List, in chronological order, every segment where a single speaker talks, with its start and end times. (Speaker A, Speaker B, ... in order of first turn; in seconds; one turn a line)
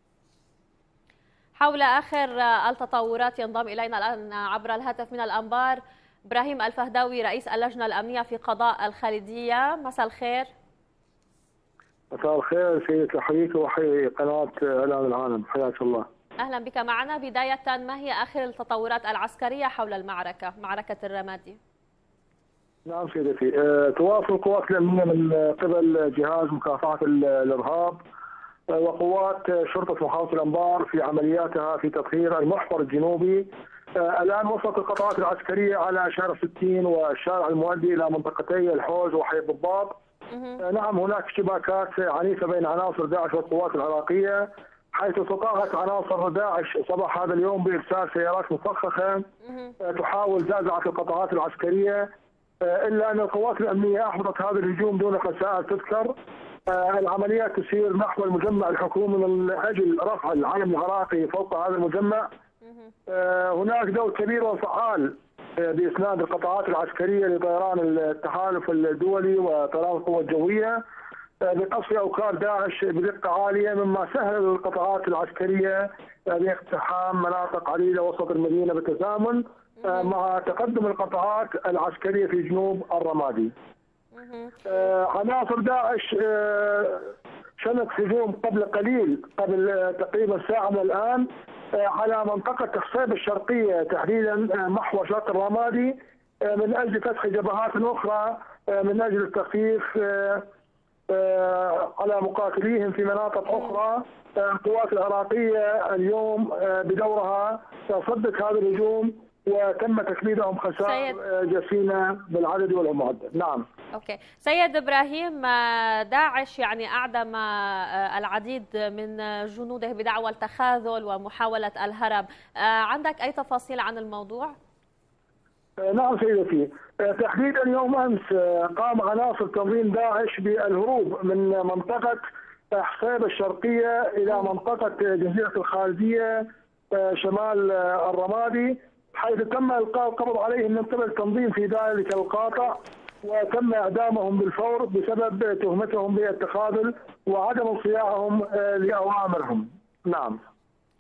Speaker A: 1.6-10.5
Speaker B: 12.1-16.1
Speaker A: 16.4-21.6
Speaker B: 22.9-28.0
Speaker B: 28.7-40.0
Speaker A: 40.3-40.6
Speaker B: 40.6-49.3
Speaker B: 49.8-52.1
Speaker B: 52.6-56.1
Speaker B: 56.7-62.3
Speaker B: 63.1-70.8
Speaker B: 71.4-83.5
Speaker A: 79.8-80.1
Speaker A: 84.2-84.6
Speaker B: 84.7-100.5
Speaker B: 101.1-113.7
Speaker A: 110.8-111.2
Speaker A: 114.0-124.5
Speaker B: 125.8-150.4